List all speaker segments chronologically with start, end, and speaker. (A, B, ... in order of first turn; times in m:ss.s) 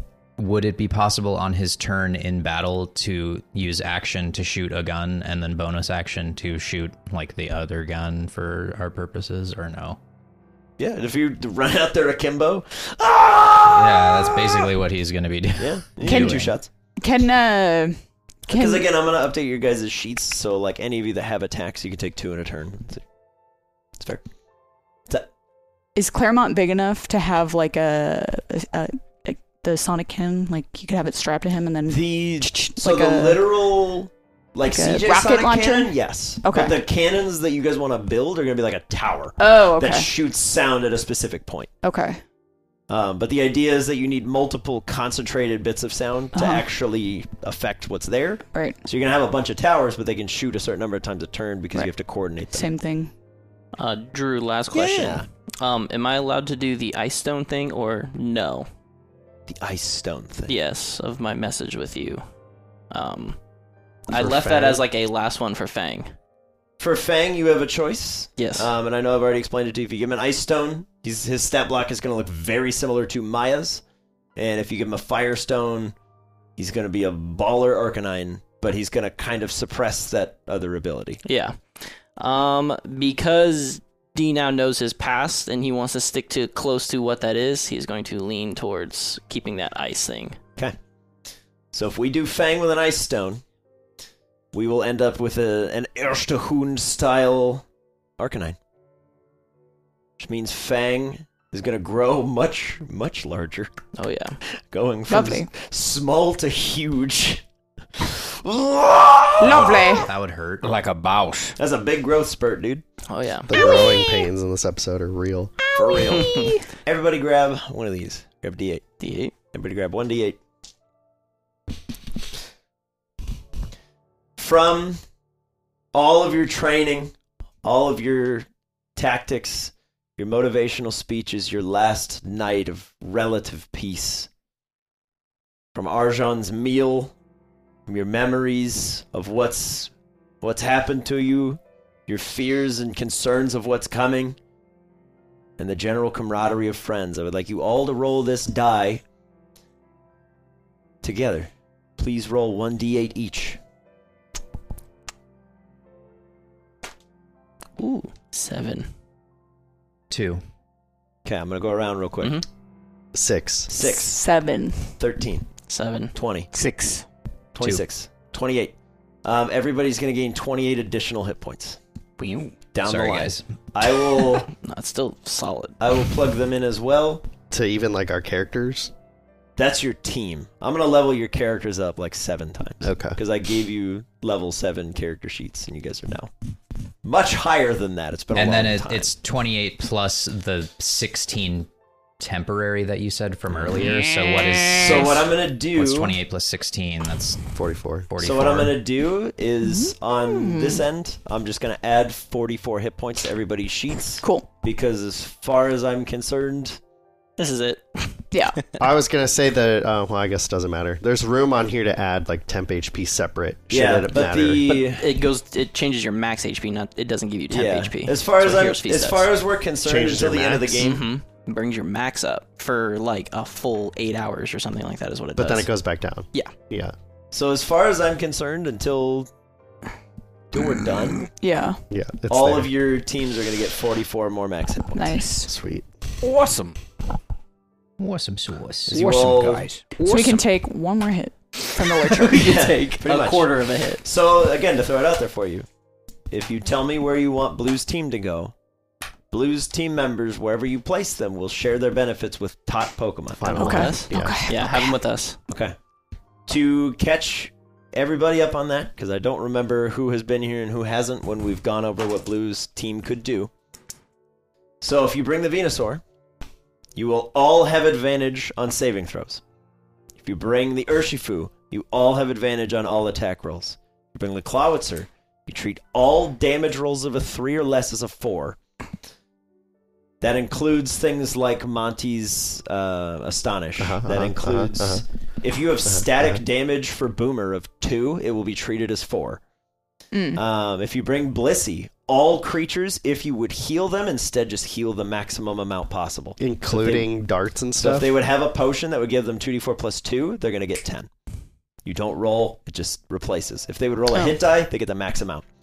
0:00.4-0:10.0 A
0:10.8-0:14.7 B
0:13.6-0:16.5 A
0:15.6-0:16.7 B
0:16.0-0:18.0 C
0:18.5-0:18.9 C
0:18.5-0:23.0 B
0:24.0-0:24.2 B
0:26.0-0:33.4 C
0:31.9-0:41.7 B
0:34.6-0:36.8 C
0:39.4-0:40.1 C
0:41.8-0:42.2 C
0:42.9-0:52.6 B
0:46.3-0:46.6 C
0:48.5-0:48.8 C
0:52.5-0:53.1 C
0:53.8-0:58.7 D
0:54.7-0:55.2 B
0:59.5-1:00.5 B
1:00.5-1:02.2 D
1:02.9-1:03.4 D
1:04.1-1:06.1 D
1:04.1-1:04.8 B
1:06.8-1:13.8 B
1:08.4-1:08.7 D
1:14.4-1:15.9 B
1:16.6-1:21.2 B
1:21.2-1:30.4 D
1:31.7-1:33.4 B
1:34.5-1:37.6 B
1:38.2-1:38.6 B
1:40.2-1:43.7 B
1:44.0-1:44.4 D
1:44.6-1:47.4 B
1:45.1-1:45.5 C
1:48.0-1:50.0 B
1:49.4-1:50.1 C
1:49.4-1:50.8 A
1:50.6-1:51.5 E
1:51.6-1:52.8 B
1:53.1-1:53.7 D
1:53.5-1:55.5 F
1:53.5-1:54.3 C
1:55.7-1:58.8 B
1:55.8-1:56.6 C
1:56.2-1:56.5 D
1:59.0-1:59.3 D
1:59.5-2:00.4 B
2:04.4-2:05.0 B
2:05.9-2:07.1 B
2:07.6-2:14.3 B
2:15.7-2:17.1 B
2:17.9-2:24.4 B
2:25.6-2:29.0 B
2:31.0-2:33.6 B
2:37.8-2:38.9 D
2:40.1-2:40.4 A
2:41.2-2:42.4 B
2:43.1-2:43.7 F
2:43.7-2:44.2 B
2:43.8-2:44.9 C
2:45.0-2:45.5 B
2:45.7-2:46.1 D
2:46.1-2:46.5 B
2:46.5-2:47.0 E
2:47.5-2:51.8 B
2:52.2-2:52.6 E
2:52.7-2:54.5 B
2:52.8-2:53.4 A
2:54.5-2:55.8 D
2:55.8-2:57.2 B
2:57.5-2:58.9 F
2:59.6-3:06.3 B
3:02.8-3:03.2 F
3:07.0-3:09.1 B
3:08.3-3:11.7 A
3:12.2-3:17.5 A
3:13.5-3:13.8 B
3:14.2-3:14.6 E
3:14.8-3:16.2 B
3:17.5-3:18.1 F
3:18.1-3:18.7 A
3:18.2-3:26.8 B
3:19.6-3:20.8 C
3:24.2-3:24.5 C
3:27.4-3:28.2 D
3:28.3-3:28.6 C
3:28.8-3:34.6 F
3:33.7-3:35.1 B
3:34.7-3:39.3 D
3:37.5-3:41.1 B
3:39.8-3:40.8 F
3:40.8-3:45.7 D
3:45.4-3:46.9 F
3:47.3-3:49.3 B
3:50.5-3:51.3 B
3:51.4-3:51.8 C
3:51.9-3:52.7 F
3:52.3-3:55.3 B
3:54.9-3:55.5 C
3:55.5-3:55.9 F
3:56.2-3:56.8 E
3:58.0-3:59.0 A
3:58.9-3:59.7 B
3:58.9-4:00.4 E
4:00.0-4:02.5 C
4:02.2-4:04.0 D
4:02.3-4:05.6 B
4:06.3-4:08.5 B
4:09.3-4:13.9 B
4:13.4-4:14.4 F
4:13.5-4:15.0 C
4:13.6-4:15.4 D
4:15.5-4:15.8 B
4:16.5-4:23.5 B
4:24.8-4:26.0 B
4:26.9-4:29.4 B
4:30.2-4:38.6 B
4:40.2-4:49.4 B
4:43.8-4:45.0 F
4:45.9-4:46.4 F
4:50.1-4:50.4 C
4:50.3-4:57.1 B
4:56.4-4:58.1 F
4:57.8-5:01.1 B
5:01.8-5:05.4 B